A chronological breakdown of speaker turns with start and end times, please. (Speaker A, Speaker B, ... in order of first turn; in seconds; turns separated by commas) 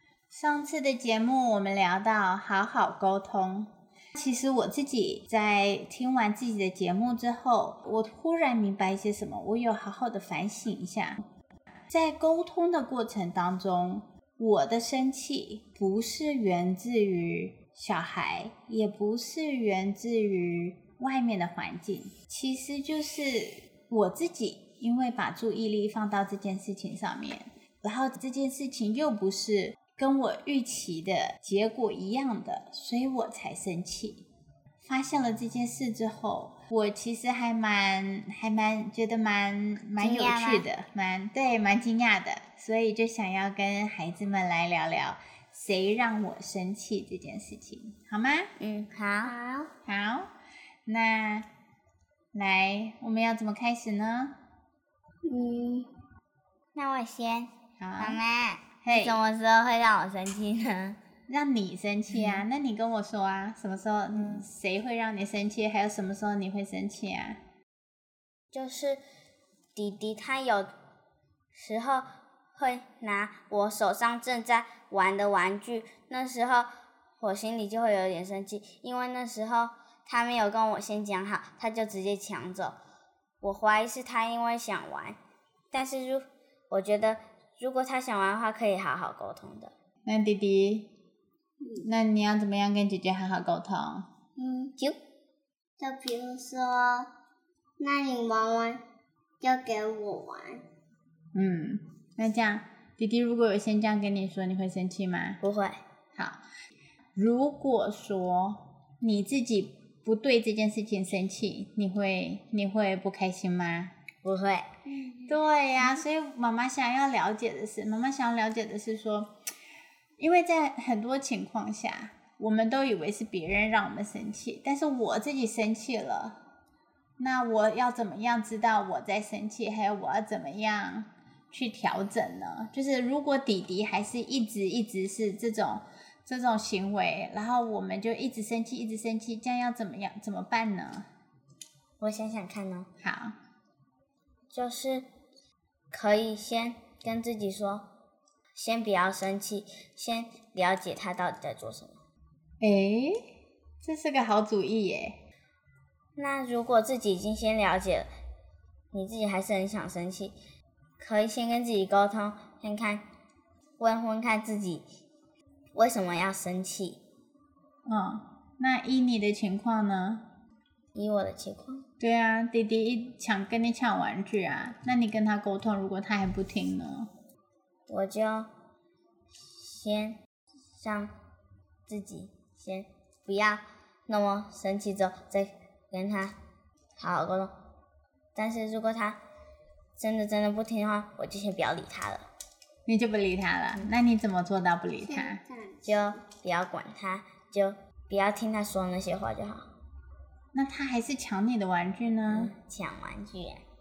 Speaker A: 0.3-11.2, Speaker A: 11.9-34.2, Speaker A: 34.8-48.5, Speaker B: 40.0-40.6, Speaker B: 48.6-49.3, Speaker C: 49.2-49.7, Speaker A: 49.9-50.3, Speaker A: 50.9-51.5, Speaker A: 52.3-54.3, Speaker C: 55.2-55.9, Speaker B: 56.7-61.0, Speaker A: 57.8-58.2, Speaker A: 58.8-59.2, Speaker A: 61.3-67.4, Speaker B: 62.1-62.4, Speaker B: 68.5-69.0, Speaker B: 69.8-70.7, Speaker B: 71.5-76.7, Speaker B: 77.2-82.8, Speaker B: 83.4-85.2, Speaker B: 85.7-89.7, Speaker A: 90.0-90.9, Speaker A: 91.8-94.0, Speaker C: 94.4-94.7, Speaker C: 95.8-97.1, Speaker C: 97.8-98.8, Speaker C: 99.4-100.6, Speaker A: 101.3-105.4, Speaker B: 105.4-105.8, Speaker A: 107.2-113.9, Speaker B: 114.2-114.7, Speaker A: 115.2-119.3, Speaker A: 120.2-126.4, Speaker A: 127.2-141.1, Speaker B: 142.0-142.9, Speaker A: 143.0-143.3, Speaker B: 144.5-145.1, Speaker B: 145.9-147.8, Speaker B: 148.5-152.0, Speaker A: 152.6-153.2, Speaker A: 153.8-155.2, Speaker B: 156.2-158.1, Speaker B: 158.9-160.3, Speaker B: 161.0-163.0, Speaker B: 163.8-164.8, Speaker B: 165.7-167.0, Speaker A: 167.8-170.2, Speaker B: 170.9-171.8, Speaker A: 172.0-177.1, Speaker B: 177.9-178.5, Speaker B: 179.5-180.2, Speaker B: 180.8-181.1, Speaker B: 181.9-186.3, Speaker B: 187.0-187.5, Speaker B: 188.3-189.2, Speaker B: 190.0-192.2, Speaker A: 192.8-195.4, Speaker C: 195.0-196.2, Speaker B: 195.8-199.6, Speaker A: 200.5-202.5, Speaker B: 202.3-203.6